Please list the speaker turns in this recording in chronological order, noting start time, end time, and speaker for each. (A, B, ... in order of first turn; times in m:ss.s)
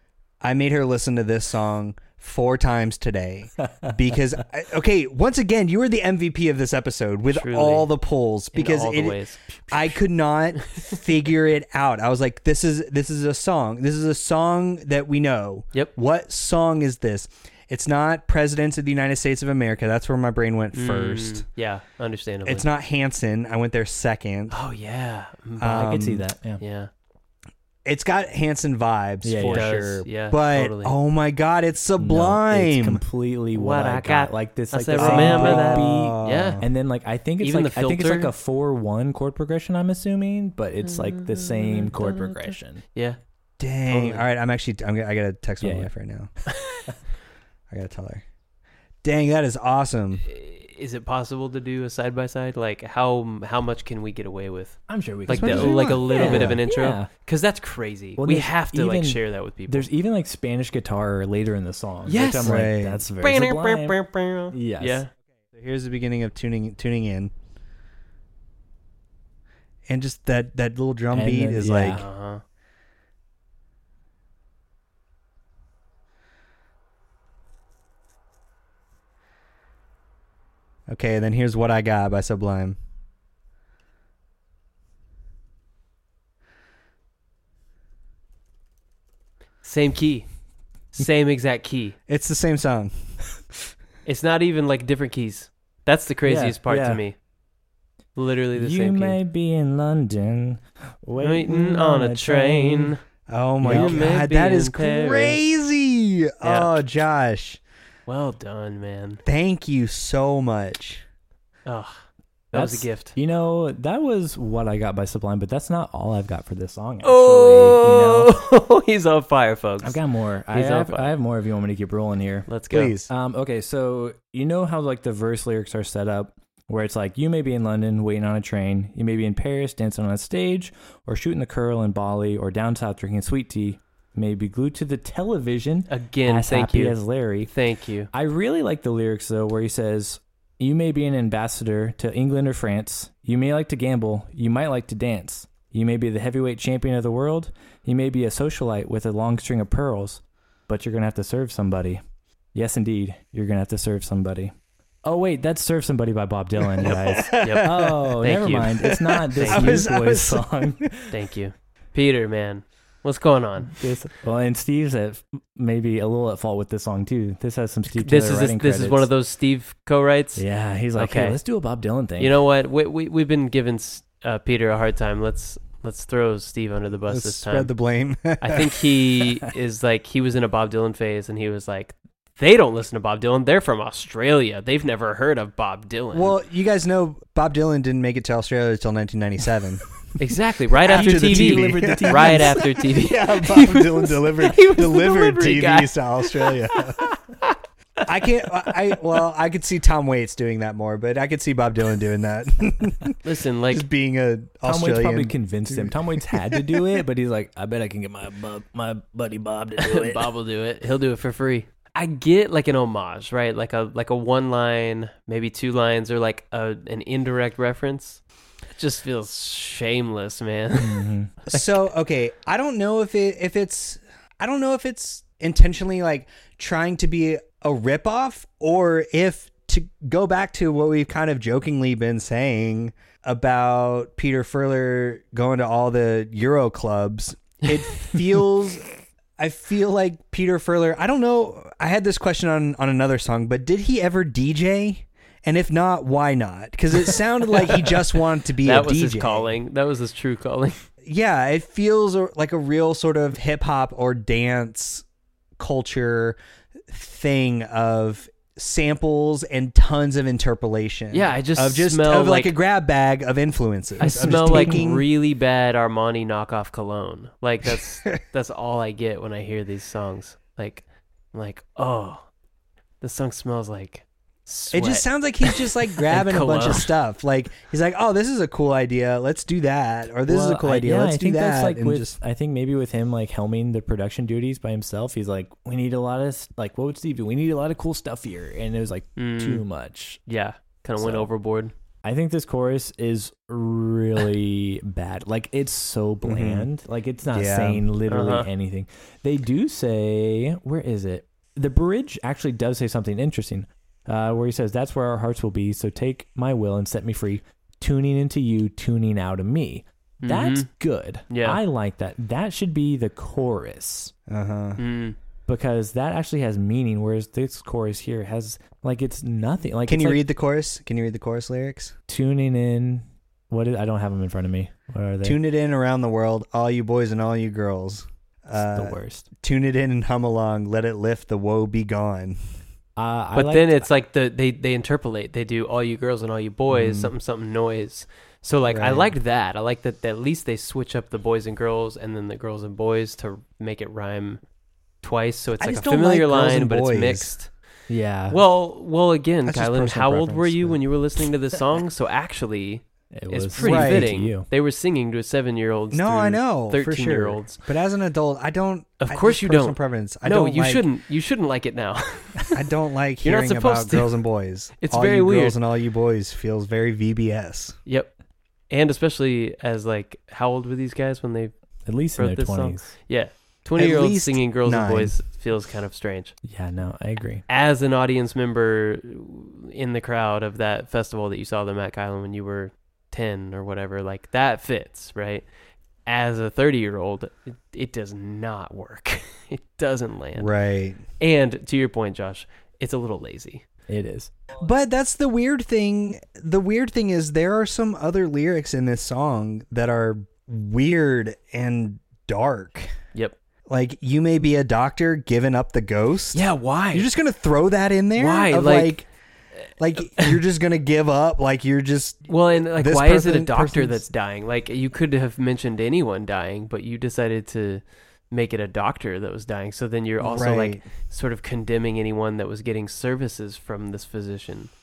0:00.4-0:21.4 A
0:07.3-0:07.9 B
0:08.5-0:09.8 B
0:10.7-0:10.9 B
0:20.7-0:22.6 B
0:22.4-0:24.6 A
0:24.5-0:26.0 B
0:25.6-0:26.2 A
0:25.8-0:26.6 C
0:26.6-0:26.9 B
0:27.8-0:33.0 A
0:29.2-0:29.7 C
0:29.4-0:31.0 B
0:32.0-0:42.8 C
0:33.5-0:36.6 B
0:35.0-0:36.6 A
0:37.4-0:38.3 B
0:40.8-0:43.2 B
0:43.6-0:46.3 A
0:43.9-0:44.2 B
0:45.6-0:45.9 C
0:46.6-0:46.8 B
0:47.7-0:48.2 A
0:49.0-0:50.2 A
0:50.2-0:59.9 B
0:54.9-0:57.1 C
0:55.3-0:56.6 A
0:58.2-1:04.0 C
1:02.0-1:05.1 B
1:02.4-1:03.0 A
1:04.5-1:05.0 C
1:05.5-1:07.3 A
1:09.9-1:12.0 A
1:11.1-1:12.0 C
1:11.9-1:12.4 B
1:20.9-1:22.8 A
1:29.6-1:30.3 B
1:30.9-1:32.0 B
1:32.1-1:33.2 A
1:34.0-1:37.2 B
1:36.2-1:37.0 C
1:38.2-1:39.2 B
1:38.6-1:42.9 C
1:41.2-1:43.0 B
1:43.3-1:47.6 A
1:43.6-1:44.1 C
1:43.7-1:45.4 B
1:46.4-1:46.7 B
1:48.1-1:49.2 B
1:49.2-1:51.0 A
1:51.6-1:53.1 B
1:52.5-1:58.4 C
1:57.0-2:01.1 B
1:59.8-2:02.5 C
2:02.5-2:02.9 B
2:02.7-2:03.1 A
2:03.1-2:17.5 C
2:15.9-2:18.1 B
2:18.1-2:32.0 C
2:32.5-2:41.1 C
2:36.8-2:38.2 A
2:37.4-2:39.8 B
2:38.8-2:40.9 A
2:41.1-2:43.8 B
2:43.7-2:49.1 C
2:47.9-2:50.4 B
2:50.4-2:52.3 C
2:50.9-2:51.4 B
2:52.2-2:57.7 B
2:57.1-2:58.9 A
2:58.4-3:06.4 B
3:06.1-3:09.8 A
3:10.2-3:17.6 B
3:10.8-3:17.0 A
3:10.8-3:12.7 C
3:18.0-3:23.2 A
3:23.2-3:23.8 B
3:23.7-3:26.9 A
3:24.6-3:30.3 C
3:29.8-3:41.8 B
3:40.8-3:41.3 C
3:41.5-4:09.5 A
4:07.6-4:08.0 B
4:08.6-4:10.8 B
4:11.0-4:15.0 A
4:15.6-4:16.4 A
4:16.9-4:25.1 A
4:21.1-4:22.5 B
4:24.0-4:32.2 B
4:24.2-4:24.7 C
4:33.0-4:36.9 B
4:34.7-4:42.2 A
4:40.2-4:50.2 C
4:49.2-4:49.6 B
4:50.3-4:51.7 B
4:51.0-4:51.3 C
4:52.0-5:14.1 C
4:56.2-4:56.7 A
4:57.3-4:57.8 A
4:58.1-4:58.5 B
5:10.2-5:10.7 B
5:11.3-5:11.6 B
5:14.3-5:14.8 A
5:14.8-5:15.2 B
5:15.5-5:20.2 C
5:19.8-5:21.9 A
5:22.1-5:25.4 C
5:25.2-5:32.4 A
5:28.5-5:29.3 C
5:33.0-5:33.9 C
5:33.3-5:44.4 B
5:36.7-5:37.1 A
5:38.7-5:39.1 A
5:45.0-5:47.5 B
5:45.6-5:47.3 A
5:47.9-5:48.4 C
5:48.3-5:57.6 B
5:49.4-5:50.8 A
5:53.1-5:54.5 C
5:53.6-5:54.1 A
5:55.9-6:00.8 A
5:59.0-6:02.5 B
6:02.5-6:07.8 A
6:03.2-6:04.2 B
6:04.8-6:05.6 B
6:07.8-6:08.1 B
6:08.7-6:11.5 B
6:11.8-6:12.9 C
6:12.2-6:16.3 B
6:13.8-6:15.1 A
6:16.4-6:17.4 C
6:17.5-6:25.4 B
6:26.0-6:30.5 B
6:30.4-6:31.0 A
6:31.2-6:33.6 B
6:33.9-6:34.3 C
6:34.6-6:42.9 A
6:43.7-6:49.1 A
6:46.3-6:47.1 B
6:48.2-6:49.0 B
6:49.8-6:54.0 A
6:52.3-7:04.7 B
7:00.2-7:00.8 A